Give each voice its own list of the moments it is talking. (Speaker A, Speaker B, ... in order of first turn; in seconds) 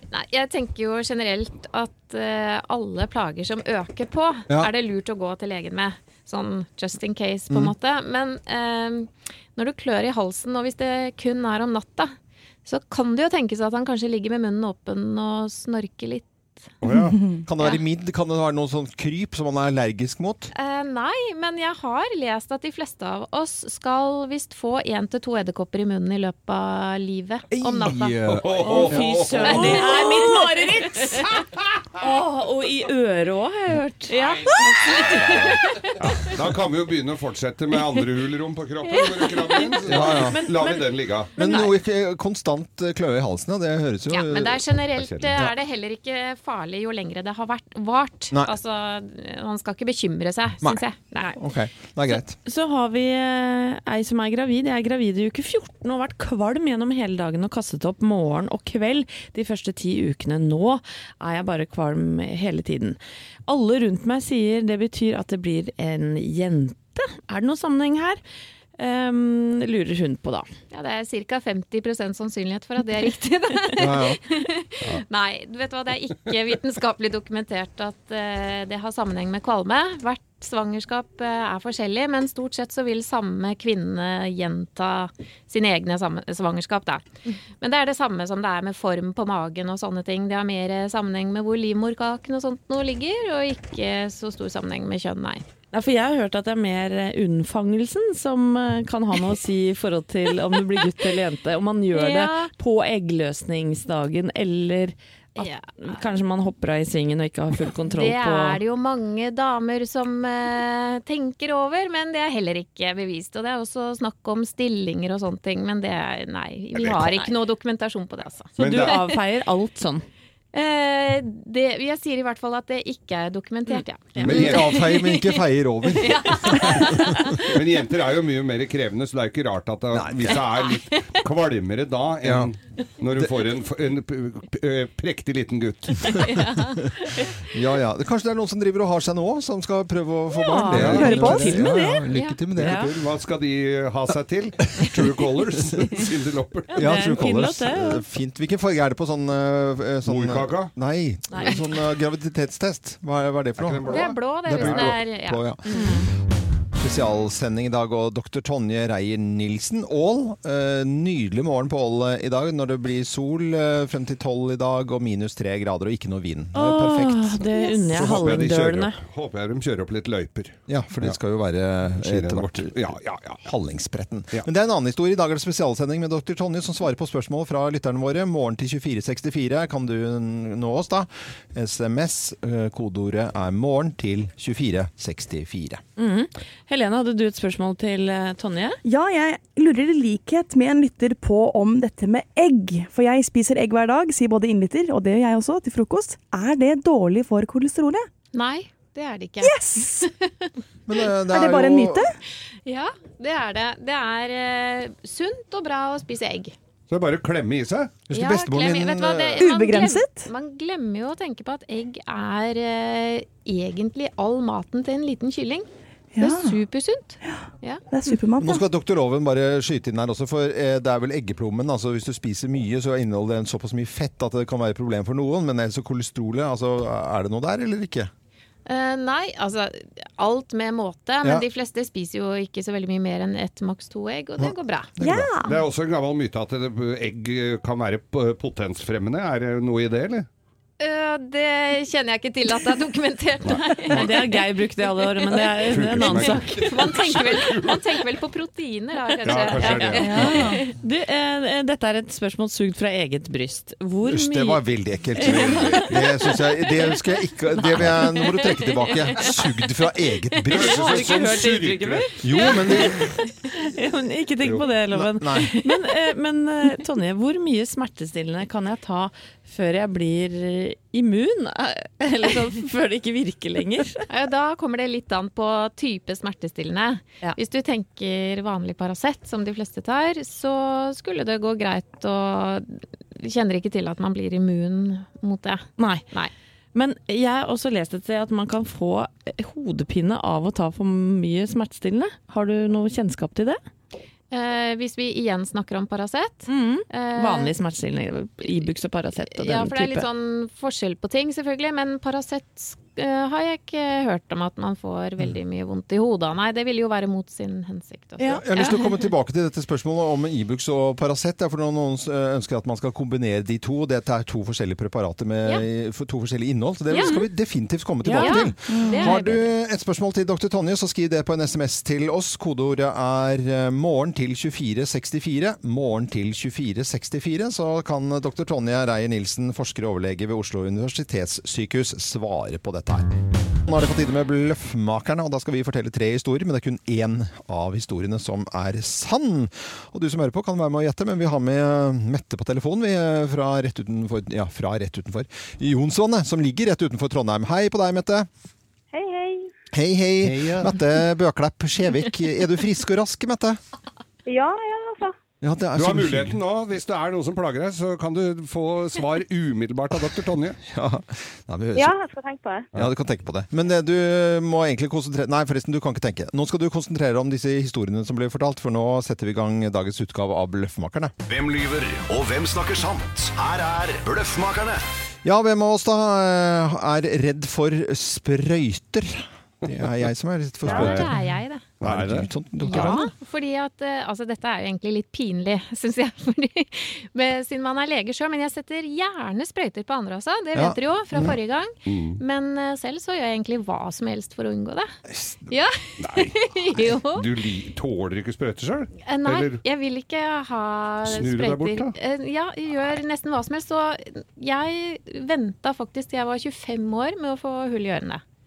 Speaker A: 0.1-12.1, 12.6-16.3, 20.5-28.2, 29.4-30.4, 34.1-36.0, 44.1-51.4, 70.7-87.1, 87.6-95.4, 101.9-102.5, 105.3-106.0, 107.8-119.0, 120.5-127.6, 130.4-131.2, 136.2-137.3, 142.1-142.4, 153.9-156.0, 198.3-200.5, 202.7-206.5, 208.1-215.7, 216.2-217.8, 228.7-234.9, 240.8-250.7, 274.1-286.3, 294.3-297.5, 299.3-308.8, 316.9-317.2, 318.1-319.4, 380.6-381.6, 382.6-394.9, 395.5-397.3, 399.0-408.2
Speaker B: 16.8-17.2, 27.8-30.0, 31.2-31.6, 35.0-41.3, 45.0-45.4, 116.7-117.1, 118.6-119.0, 124.2-124.8, 127.4-136.3, 140.7-141.3, 142.6-146.9, 150.0-150.7, 153.6-154.9, 167.9-171.2, 171.9-173.4, 206.9-207.9, 235.4-240.3, 245.5-247.9, 249.2-250.4, 255.2-256.0, 260.5-262.1, 264.4-264.6, 350.2-350.7, 355.8-360.6, 380.6-381.1, 381.8-382.9, 391.9-392.2, 396.0-399.6, 401.0-401.9
Speaker C: 17.1-17.4, 140.7-141.8, 188.8-198.1, 199.4-200.1, 201.3-202.2, 209.4-210.3, 216.1-216.6, 217.2-218.6, 235.0-235.6, 250.0-250.6, 318.7-319.1
Speaker D: 17.4-20.5, 27.5-29.1, 39.9-40.4, 41.4-44.7, 51.4-52.3, 73.8-74.2, 124.2-127.3, 129.9-130.4, 132.2-132.5, 136.3-136.9, 137.4-142.8, 146.7-155.6, 156.8-167.5, 170.7-172.9, 173.4-185.8, 200.9-202.0, 208.1-209.4, 218.4-228.1, 234.4-235.3, 254.0-260.8, 262.2-263.1, 264.9-265.5, 308.4-333.1, 333.6-348.3, 349.7-353.6, 355.4-356.4, 360.7-361.9, 362.7-371.1, 375.2-381.1, 381.8-383.1, 390.5-391.4
Speaker E: 28.5-31.4, 32.0-35.7, 39.2-41.7, 52.1-68.2, 68.8-70.5, 95.7-108.6, 118.6-120.0, 140.3-142.9, 146.7-148.0, 155.7-156.1, 166.5-169.0, 186.0-188.8, 243.8-247.1, 249.6-254.6, 255.2-256.0, 260.5-274.1, 285.8-286.1, 286.7-293.6, 296.5-300.1, 318.0-318.4
Speaker F: 348.9-349.5, 354.2-355.1, 361.8-362.7
Speaker G: 371.2-374.8